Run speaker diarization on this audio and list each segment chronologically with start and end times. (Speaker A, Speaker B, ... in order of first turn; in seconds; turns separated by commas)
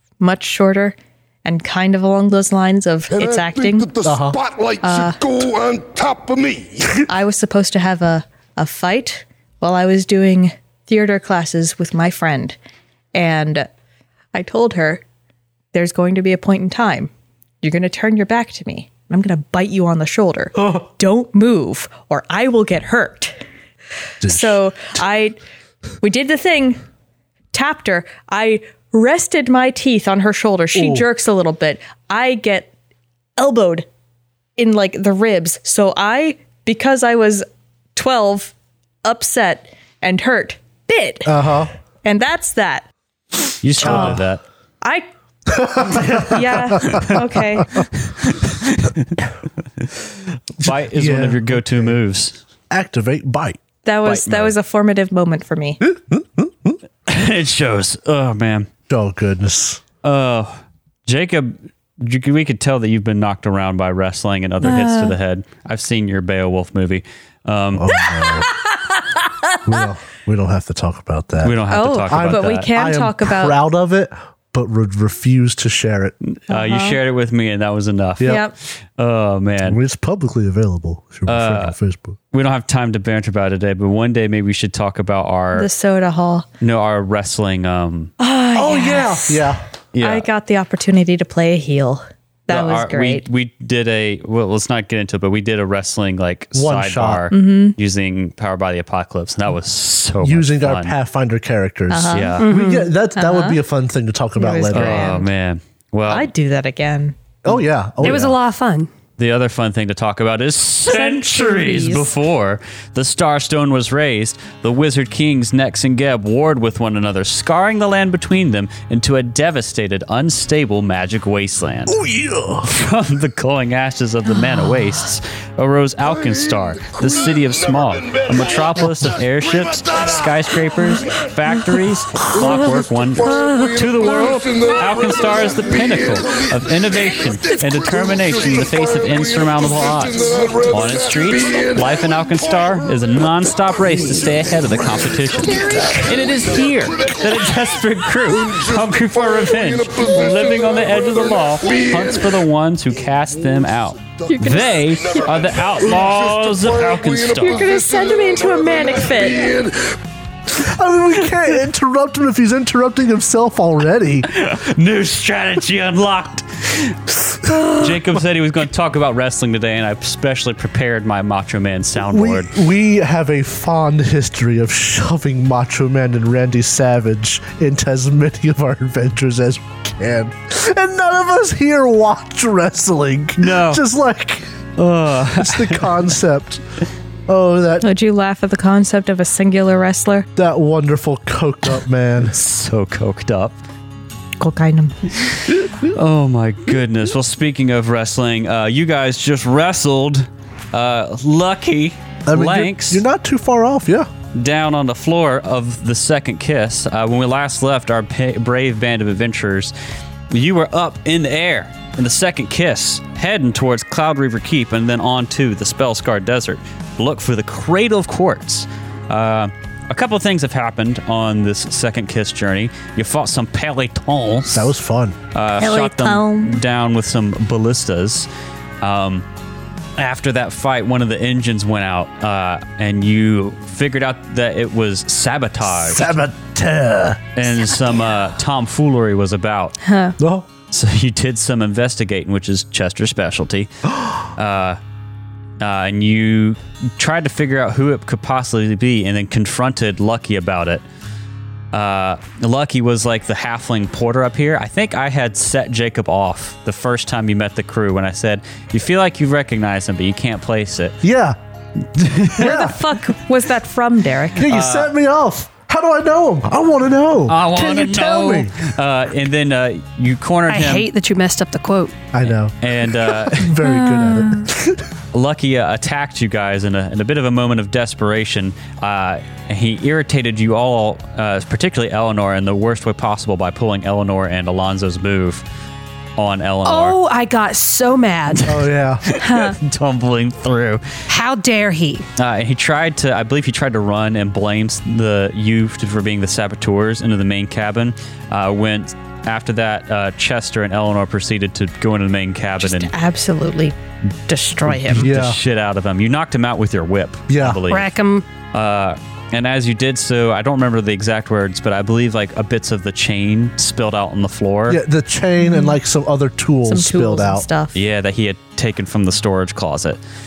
Speaker A: 0.2-3.9, Speaker B: 3.1-7.0, Speaker C: 4.0-4.4, Speaker A: 4.8-5.2, Speaker A: 7.0-12.6, Speaker A: 13.1-13.7, Speaker A: 14.3-15.0, Speaker A: 15.7-17.1, Speaker A: 17.6-23.4, Speaker C: 20.6-20.8, Speaker C: 24.2-24.6, Speaker A: 24.2-25.4, Speaker A: 26.0-26.8, Speaker A: 27.5-32.7, Speaker C: 30.7-31.1, Speaker A: 33.4-33.9, Speaker A: 34.6-38.5, Speaker A: 39.0-41.4, Speaker C: 41.3-41.7, Speaker A: 42.0-42.9, Speaker D: 43.6-44.4, Speaker A: 43.8-44.2, Speaker C: 43.8-44.2, Speaker C: 45.5-47.8, Speaker A: 45.6-47.9, Speaker D: 48.2-49.2, Speaker D: 49.8-50.1, Speaker D: 50.6-52.4, Speaker C: 50.6-52.0, Speaker C: 52.7-53.6, Speaker A: 53.8-55.8, Speaker D: 54.0-54.5, Speaker C: 55.8-56.8, Speaker D: 57.1-58.7, Speaker C: 58.9-59.8, Speaker D: 60.0-68.0, Speaker A: 64.6-65.2, Speaker C: 67.7-68.5, Speaker C: 69.7-76.2, Speaker D: 71.4-72.7, Speaker A: 71.7-73.6, Speaker D: 76.2-78.4, Speaker A: 76.5-77.0, Speaker A: 78.2-78.5, Speaker D: 79.0-79.8, Speaker C: 79.6-82.2, Speaker D: 81.3-81.8, Speaker D: 82.3-85.7, Speaker A: 85.5-86.5, Speaker D: 86.6-88.1, Speaker A: 88.2-89.5, Speaker C: 88.5-89.6, Speaker D: 89.9-90.3, Speaker A: 90.0-93.2, Speaker D: 92.5-101.0, Speaker C: 96.5-97.3, Speaker A: 97.3-97.8, Speaker C: 100.2-105.2, Speaker A: 101.9-102.4, Speaker D: 102.1-102.5, Speaker E: 102.4-102.9, Speaker A: 103.2-103.6, Speaker A: 104.4-105.3, Speaker D: 104.7-106.3, Speaker A: 106.1-107.2, Speaker C: 107.5-108.4, Speaker E: 108.0-108.9, Speaker D: 109.2-122.0, Speaker A: 110.9-112.1, Speaker C: 121.9-122.7, Speaker D: 122.7-157.7, Speaker B: 126.0-131.2, Speaker B: 132.2-152.4, Speaker A: 154.3-154.8, Speaker B: 154.3-159.9, Speaker A: 157.4-159.6, Speaker C: 160.5-164.3, Speaker D: 164.3-172.6, Speaker C: 172.0-184.5, Speaker D: 183.4-183.8, Speaker D: 184.8-186.1, Speaker C: 185.3-186.6, Speaker C: 187.3-187.9, Speaker A: 187.8-190.3, Speaker C: 190.4-192.4, Speaker D: 192.2-193.6, Speaker A: 194.4-195.0, Speaker D: 195.8-203.0, Speaker C: 202.3-204.1, Speaker D: 204.3-209.7, Speaker D: 210.3-224.7, Speaker C: 224.5-225.2, Speaker D: 225.3-228.3, Speaker A: 225.6-226.6, Speaker D: 228.8-229.2, Speaker D: 230.0-236.1, Speaker C: 235.7-237.2, Speaker D: 237.4-239.8, Speaker A: 239.8-240.2, Speaker C: 240.2-240.5, Speaker D: 240.7-243.7, Speaker C: 243.9-244.2, Speaker D: 244.3-244.8, Speaker D: 245.6-250.8, Speaker D: 251.7-261.0, Speaker C: 261.0-261.4, Speaker D: 261.9-262.5, Speaker C: 262.3-262.8, Speaker A: 262.4-264.5, Speaker C: 264.4-268.6, Speaker D: 264.4-264.9, Speaker D: 267.3-270.9, Speaker E: 270.5-271.9, Speaker C: 272.1-274.9, Speaker D: 272.6-273.5, Speaker D: 275.1-285.4, Speaker D: 286.2-287.0, Speaker E: 286.6-288.6, Speaker C: 288.5-289.1, Speaker D: 289.1-290.8, Speaker A: 289.2-289.6, Speaker E: 291.1-292.1, Speaker D: 292.2-302.9, Speaker A: 302.6-303.8, Speaker A: 304.3-305.1, Speaker D: 304.7-307.9, Speaker C: 304.9-305.4, Speaker C: 307.3-307.6, Speaker E: 307.7-308.2, Speaker D: 308.5-314.8, Speaker C: 314.7-317.5, Speaker A: 315.4-315.7, Speaker A: 316.7-317.8, Speaker D: 317.7-320.0